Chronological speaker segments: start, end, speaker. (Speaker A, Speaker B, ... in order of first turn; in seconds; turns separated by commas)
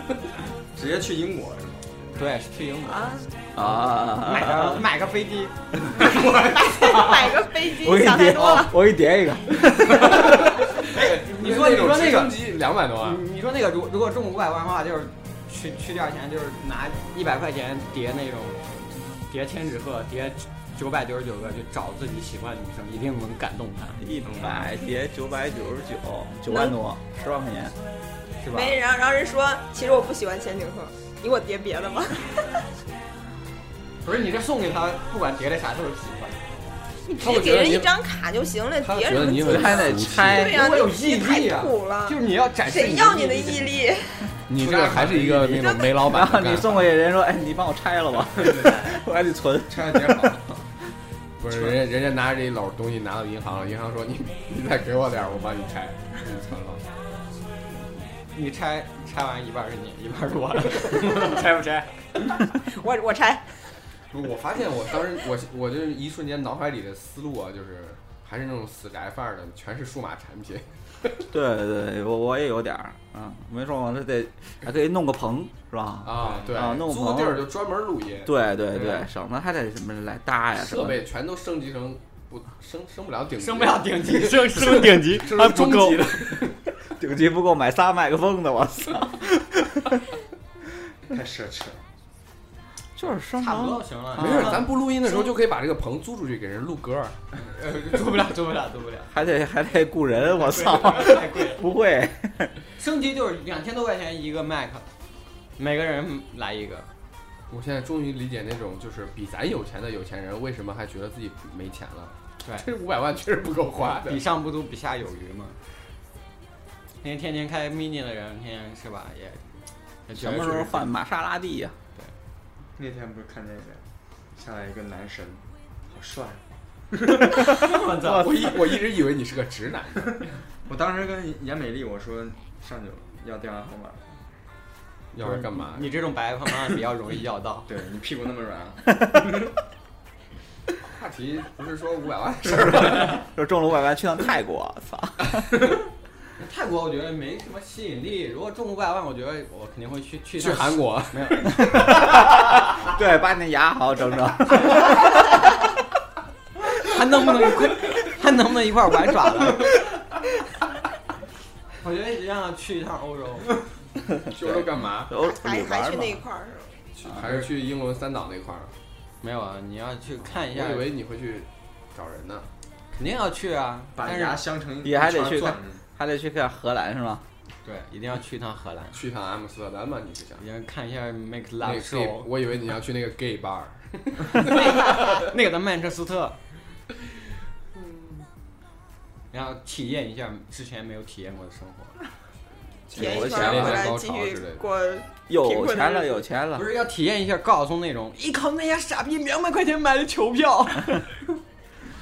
Speaker A: 0.7-1.9, Speaker B: 2.1-3.1, Speaker C: 2.9-3.3, Speaker D: 3.5-4.9, Speaker B: 4.0-5.5, Speaker A: 5.8-7.3, Speaker C: 6.5-8.8, Speaker D: 7.6-10.4, Speaker E: 9.9-13.2, Speaker B: 10.8-12.5, Speaker B: 13.0-24.0, Speaker D: 24.0-27.8, Speaker A: 24.2-24.7, Speaker C: 26.5-26.8, Speaker B: 28.4-28.8, Speaker C: 28.5-32.6, Speaker B: 34.0-36.5, Speaker C: 37.1-44.4, Speaker E: 37.2-37.9, Speaker E: 38.8-40.5, Speaker D: 39.4-40.7, Speaker B: 40.4-43.7, Speaker E: 44.5-46.9, Speaker A: 44.6-45.5, Speaker C: 45.6-45.9, Speaker D: 46.0-50.3, Speaker A: 48.3-49.0, Speaker A: 49.7-50.6, Speaker E: 51.4-56.8, Speaker B: 58.3-61.9, Speaker C: 62.5-63.5, Speaker E: 64.1-71.2, Speaker D: 71.3-77.5, Speaker E: 76.0-78.3, Speaker D: 78.2-81.0, Speaker B: 78.8-79.0, Speaker E: 80.6-86.6, Speaker B: 83.4-86.4, Speaker D: 87.0-90.0, Speaker A: 91.1-91.8, Speaker D: 93.0-93.8, Speaker B: 93.4-94.7, Speaker E: 94.2-97.2, Speaker B: 97.3-99.1, Speaker D: 99.1-102.5, Speaker B: 100.3-101.6, Speaker B: 102.8-104.9, Speaker B: 105.6-106.9, Speaker E: 107.5-114.2, Speaker B: 113.8-115.6, Speaker B: 117.0-119.5, Speaker B: 120.1-120.9, Speaker D: 120.1-121.7, Speaker A: 122.8-123.8, Speaker A: 124.3-126.4, Speaker B: 127.3-128.5, Speaker E: 128.0-130.2, Speaker A: 130.7-134.0, Speaker E: 135.1-135.9, Speaker B: 135.2-137.7, Speaker A: 137.7-139.5, Speaker E: 140.8-143.2, Speaker D: 142.6-145.5, Speaker B: 146.4-151.6, Speaker E: 150.4-152.3, Speaker D: 151.7-155.4, Speaker B: 156.8-159.8, Speaker B: 161.8-163.6, Speaker D: 164.3-166.2, Speaker E: 164.3-165.1, Speaker C: 165.1-166.7, Speaker E: 166.9-168.7, Speaker B: 169.2-170.9, Speaker E: 170.4-172.5, Speaker B: 172.9-174.4, Speaker A: 173.9-175.8, Speaker D: 174.8-177.2, Speaker B: 177.6-179.0, Speaker E: 178.9-180.4, Speaker B: 180.4-182.3, Speaker E: 181.6-185.2, Speaker B: 184.4-186.4, Speaker C: 184.7-185.0, Speaker B: 189.3-192.0, Speaker E: 192.9-194.6, Speaker C: 192.9-196.2, Speaker D: 192.9-193.9, Speaker D: 195.3-196.7, Speaker B: 196.6-201.2